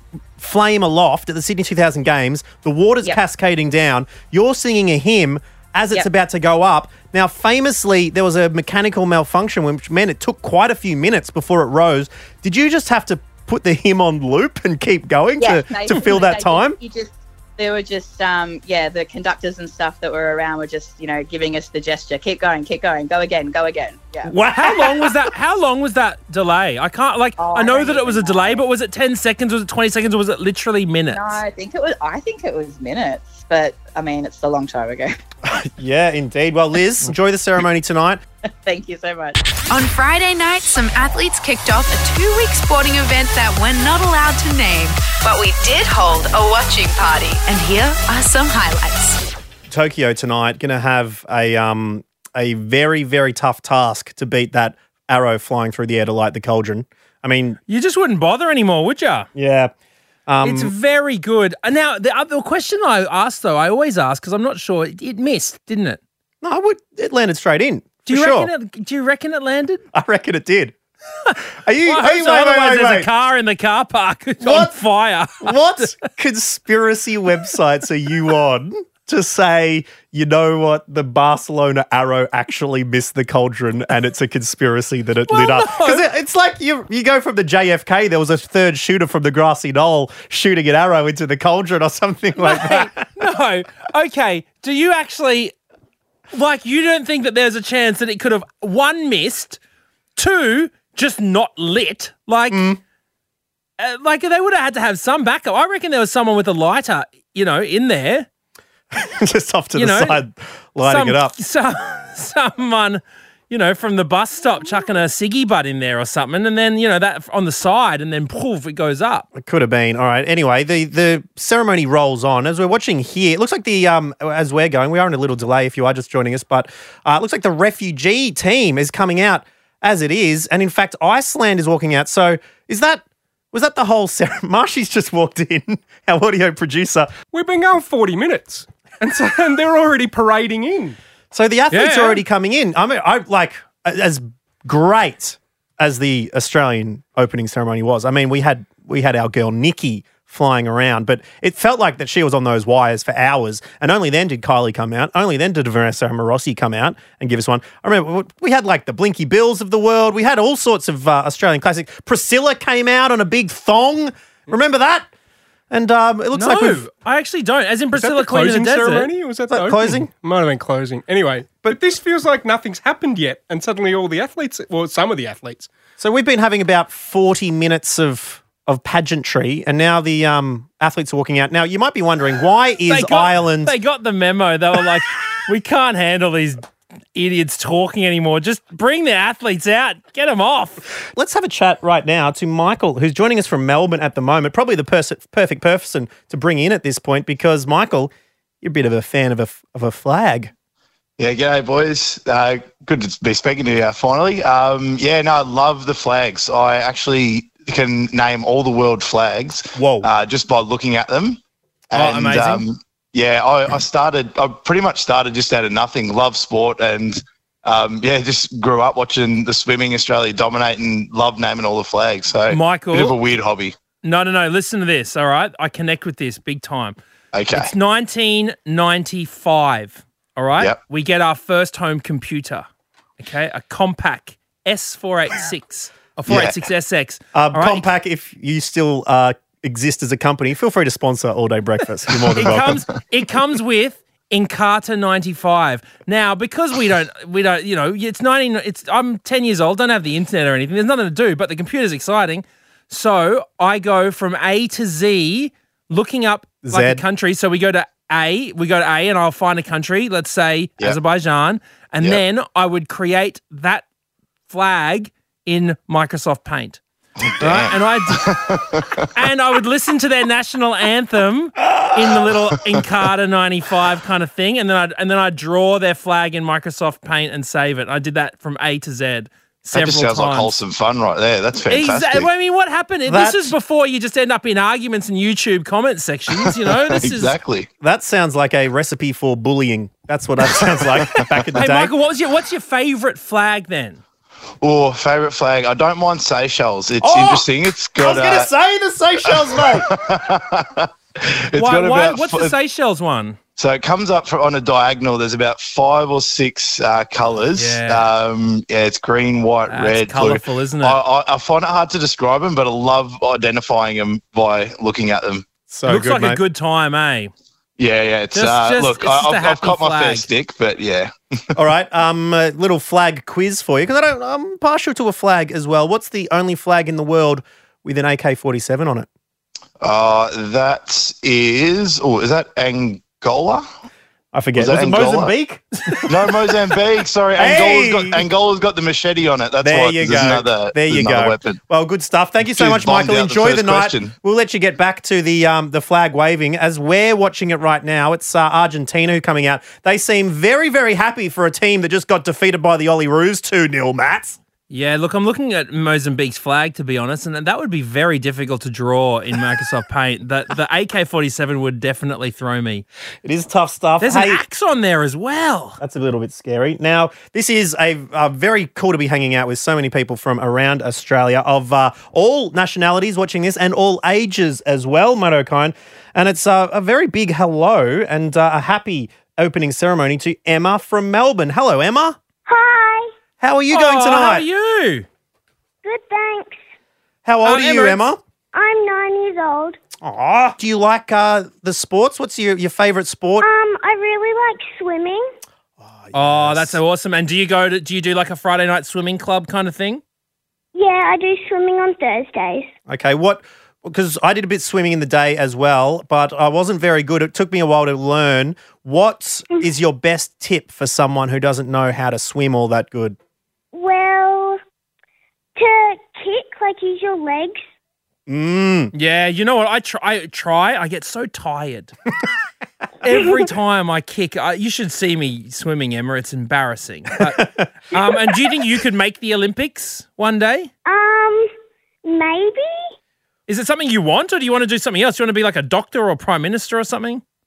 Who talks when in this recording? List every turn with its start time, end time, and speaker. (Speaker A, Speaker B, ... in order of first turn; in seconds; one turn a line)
Speaker A: 0.4-16.8
Speaker B: 15.4-24.3
Speaker C: 24.3-31.4
Speaker B: 27.4-28.6
Speaker B: 31.1-35.2
Speaker A: 35.5-38.2
Speaker B: 38.6-39.4
Speaker D: 39.7-49.2
Speaker A: 49.7-57.6
Speaker C: 57.7-59.3
Speaker A: 59.4-59.7
Speaker A: 60.3-60.7
Speaker C: 60.4-66.0
Speaker A: 66.4-68.5
Speaker C: 68.1-69.8
Speaker A: 69.9-70.8
Speaker C: 71.3-76.0
Speaker A: 71.6-73.1
Speaker A: 74.4-74.7
Speaker A: 75.4-93.0
Speaker C: 85.3-86.1
Speaker C: 92.4-95.5
Speaker C: 96.3-99.6
Speaker C: 100.2-102.7
Speaker A: 102.5-102.8
Speaker C: 103.8-108.3
Speaker A: 108.9-111.3
Speaker C: 109.8-110.2
Speaker C: 110.8-119.3
Speaker A: 119.3-137.1
Speaker E: 137.3-141.0
Speaker A: 141.3-165.1
Speaker C: 141.7-142.2
Speaker A: 165.7-166.8
Speaker C: 166.3-169.1
Speaker E: 167.9-175.7
Speaker A: 169.5-170.1
Speaker A: 176.0-183.8
Speaker C: 182.9-186.6
Speaker C: 187.2-190.9
Speaker A: 191.0-198.1
Speaker A: 198.6-200.5
Speaker F: 201.2-211.4
Speaker A: 209.8-210.1
Speaker F: 211.9-223.8
Speaker C: 211.9-212.7
Speaker C: 222.5-223.2
Speaker C: 224.0-227.0
Speaker F: 227.3-227.7
Speaker C: 227.5-232.7
Speaker C: 233.2-237.9
Speaker A: 237.3-242.8
Speaker C: 242.3-263.9
Speaker A: 256.6-257.0
Speaker C: 264.5-266.8
Speaker F: 267.2-269.1
Speaker C: 267.4-268.3
Speaker C: 269.1-280.6
Speaker F: 279.7-282.3
Speaker C: 281.7-287.4
Speaker A: 283.1-283.6
Speaker F: 286.7-287.7
Speaker A: 287.8-291.9
Speaker F: 291.0-291.3
Speaker C: 291.5-294.0
Speaker F: 294.6-298.5
Speaker A: 297.0-299.9
Speaker F: 299.2-302.5
Speaker C: 301.6-303.4
Speaker F: 303.6-315.5
Speaker C: 307.6-308.1
Speaker C: 309.7-311.0
Speaker A: 315.7-316.4
Speaker C: 315.9-317.3
Speaker F: 317.8-321.1
Speaker C: 318.3-320.3
Speaker A: 321.6-329.1
Speaker F: 329.8-333.6
Speaker A: 334.3-336.3
Speaker F: 334.6-335.3
Speaker F: 336.1-341.6
Speaker A: 337.4-338.3
Speaker A: 339.6-354.4
Speaker F: 342.4-344.1
Speaker C: 354.7-362.9
Speaker A: 363.2-364.4
Speaker C: 364.0-365.8
Speaker A: 365.8-382.2
Speaker G: 382.5-383.1
Speaker A: 383.4-384.5
Speaker C: 383.7-385.1
Speaker G: 385.8-386.6
Speaker A: 387.2-388.2
Speaker C: 387.4-388.1
Speaker G: 388.5-389.8
Speaker A: 390.0-393.4
Speaker G: 393.4-395.3
Speaker A: 395.8-396.8
Speaker C: 396.1-400.0
Speaker G: 400.7-402.7
Speaker A: 402.9-413.2
Speaker G: 413.7-414.6
Speaker G: 415.6-417.6
Speaker A: 418.3-418.9
Speaker C: 418.9-421.9
Speaker C: 423.0-430.7
Speaker A: 427.2-427.7
Speaker G: 430.9-431.5
Speaker G: 432.1-432.9
Speaker C: 433.5-437.2